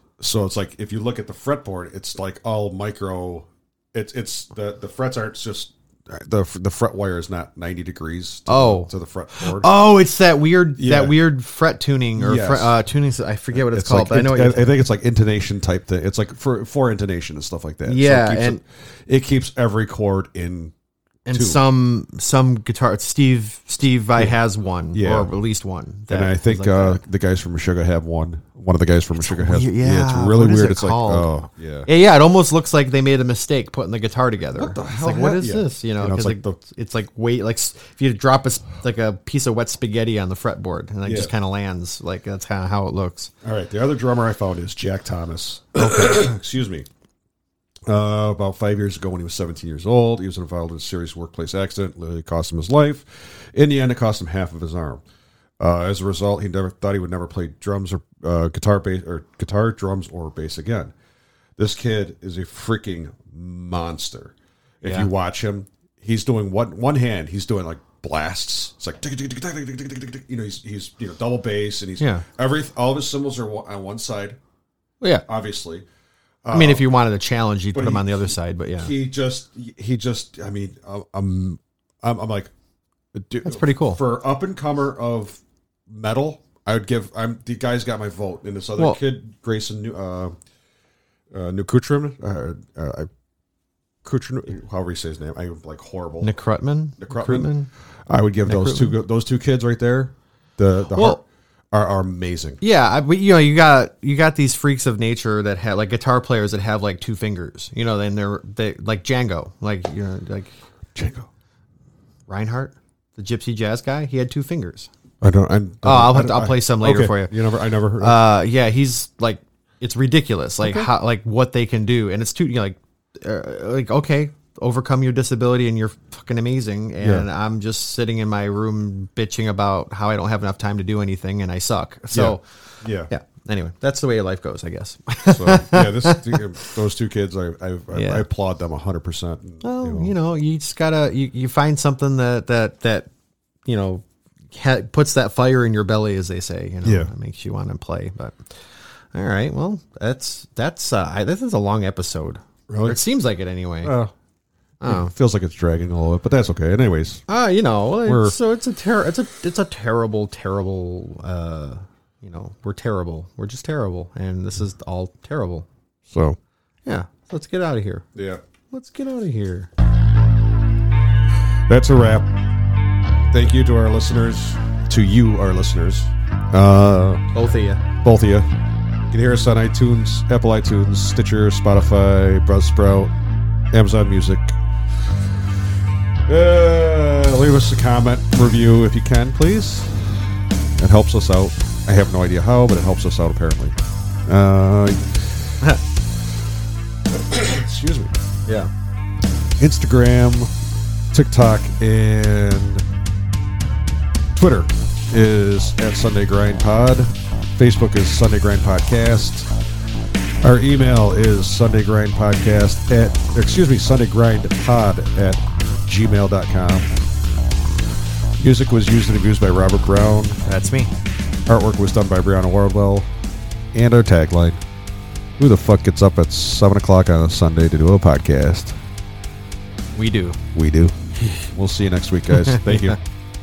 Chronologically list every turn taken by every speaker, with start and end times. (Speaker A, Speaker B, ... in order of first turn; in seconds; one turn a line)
Speaker A: 0.2-9.7
Speaker B: 8.5-14.6
Speaker A: 10.8-11.2
Speaker A: 12.2-12.7
Speaker A: 13.5-20.7
Speaker B: 17.9-18.6
Speaker B: 21.2-27.0
Speaker A: 21.3-21.6
Speaker A: 24.9-25.3
Speaker A: 26.1-31.9
Speaker B: 29.1-31.3
Speaker B: 31.9-43.3
Speaker A: 34.5-36.5
Speaker A: 41.0-41.3
Speaker A: 43.4-46.9
Speaker B: 45.8-46.2
Speaker A: 47.9-55.0
Speaker A: 55.6-60.9
Speaker A: 61.6-74.4
Speaker B: 64.8-65.1
Speaker B: 72.0-72.2
Speaker A: 75.2-75.8
Speaker A: 76.4-76.8
Speaker B: 76.5-78.9
Speaker A: 77.7-82.5
Speaker A: 83.1-90.3
Speaker B: 83.4-84.0
Speaker A: 91.3-93.1
Speaker A: 94.0-96.3
Speaker B: 96.2-97.7
Speaker A: 97.0-97.5
Speaker A: 98.1-102.6
Speaker B: 98.5-98.9
Speaker B: 100.9-101.2
Speaker B: 102.6-110.5
Speaker A: 110.9-111.3
Speaker B: 112.3-114.9
Speaker A: 115.2-118.2
Speaker B: 115.8-117.3
Speaker B: 118.0-132.4
Speaker A: 120.6-120.9
Speaker A: 127.0-127.3
Speaker A: 132.1-133.1
Speaker B: 133.1-136.7
Speaker A: 135.3-140.1
Speaker B: 137.9-138.2
Speaker B: 139.6-143.1
Speaker B: 143.7-148.4
Speaker A: 146.8-147.1
Speaker B: 149.1-153.9
Speaker A: 152.7-153.0
Speaker A: 153.8-154.1
Speaker B: 154.8-155.1
Speaker A: 154.8-157.2
Speaker B: 157.3-165.7
Speaker A: 158.0-158.3
Speaker A: 166.1-166.4
Speaker B: 166.8-168.1
Speaker A: 168.1-168.4
Speaker B: 168.7-169.7
Speaker A: 171.7-172.3
Speaker A: 173.3-177.2
Speaker B: 177.3-177.8
Speaker A: 178.0-178.5
Speaker A: 179.1-183.1
Speaker A: 183.7-184.6
Speaker A: 186.2-195.5
Speaker A: 197.1-198.1
Speaker B: 198.4-198.7
Speaker A: 199.6-200.5
Speaker A: 201.1-202.8
Speaker A: 204.3-209.5
Speaker A: 210.4-216.9
Speaker A: 218.4-220.4
Speaker B: 220.4-220.9
Speaker A: 221.5-223.1
Speaker A: 223.7-224.6
Speaker A: 225.4-228.8
Speaker B: 229.9-230.4
Speaker A: 230.5-233.0
Speaker B: 232.3-233.0